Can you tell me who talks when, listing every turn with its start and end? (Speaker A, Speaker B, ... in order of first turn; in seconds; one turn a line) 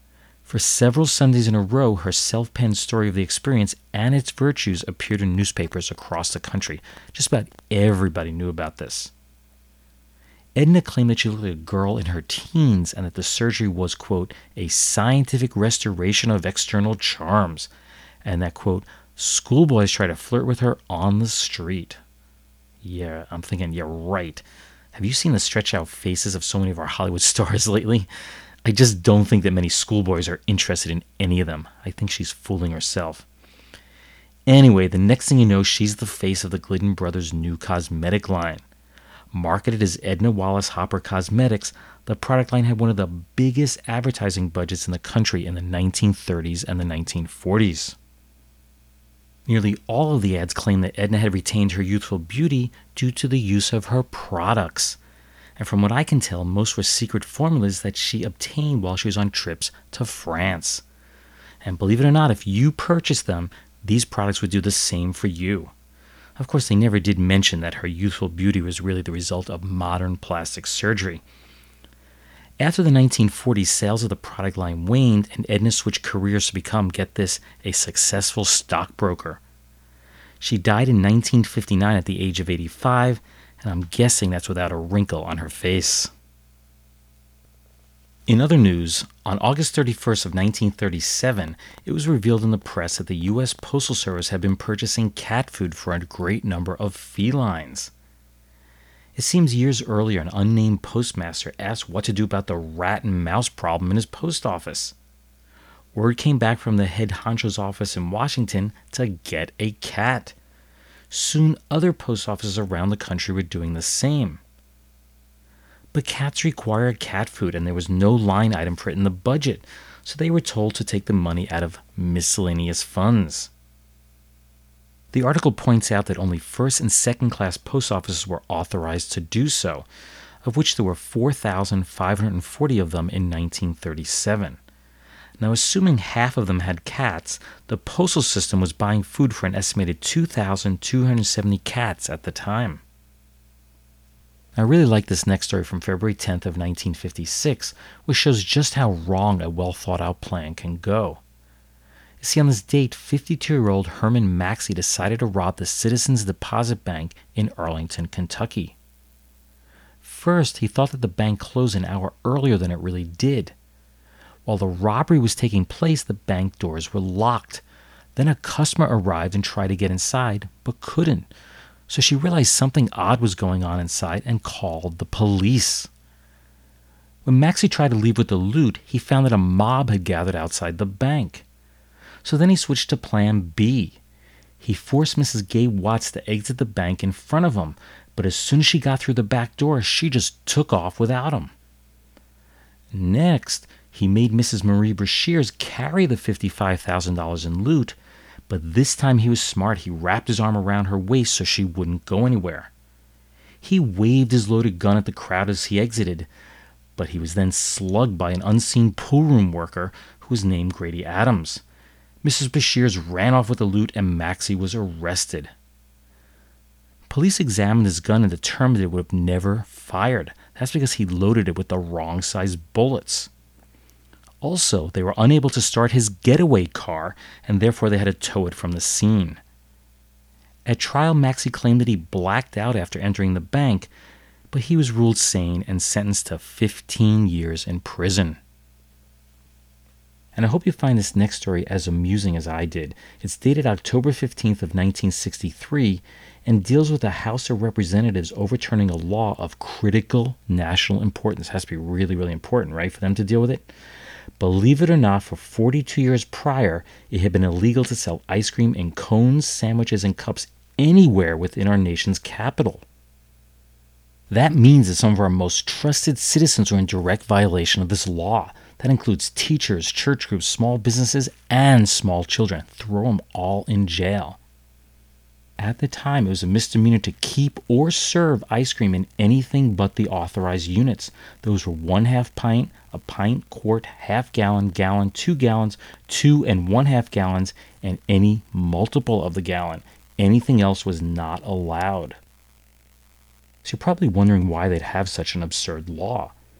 Speaker A: 0.5-9.1
Speaker A: 10.6-17.7
Speaker A: 18.2-22.0
Speaker A: 22.8-28.1
Speaker A: 28.6-33.2
Speaker A: 34.5-38.6
Speaker A: 39.3-48.0
Speaker A: 49.5-55.0
Speaker A: 55.6-60.8
Speaker A: 61.6-65.7
Speaker A: 66.4-71.2
Speaker A: 72.6-79.4
Speaker A: 80.4-86.1
Speaker A: 88.3-97.9
Speaker A: 99.2-104.9
Speaker A: 105.9-110.3
Speaker A: 111.1-114.4
Speaker A: 115.9-123.5
Speaker A: 125.1-129.9
Speaker A: 130.4-134.6
Speaker A: 135.4-142.8
Speaker A: 144.6-151.2
Speaker A: 152.2-158.7
Speaker A: 160.0-163.5
Speaker A: 164.4-167.6
Speaker A: 168.2-171.3
Speaker A: 171.9-175.9
Speaker A: 177.2-181.4
Speaker A: 182.2-184.0
Speaker A: 184.6-191.5
Speaker A: 192.9-198.0
Speaker A: 198.5-202.7
Speaker A: 203.6-206.3
Speaker A: 206.9-211.6
Speaker A: 212.2-215.5
Speaker A: 217.1-223.3
Speaker A: 224.4-229.4
Speaker A: 230.6-233.9
Speaker A: 234.5-238.4
Speaker A: 240.3-253.7
Speaker A: 254.4-262.8
Speaker A: 264.3-274.4
Speaker A: 275.6-292.2
Speaker A: 293.6-296.3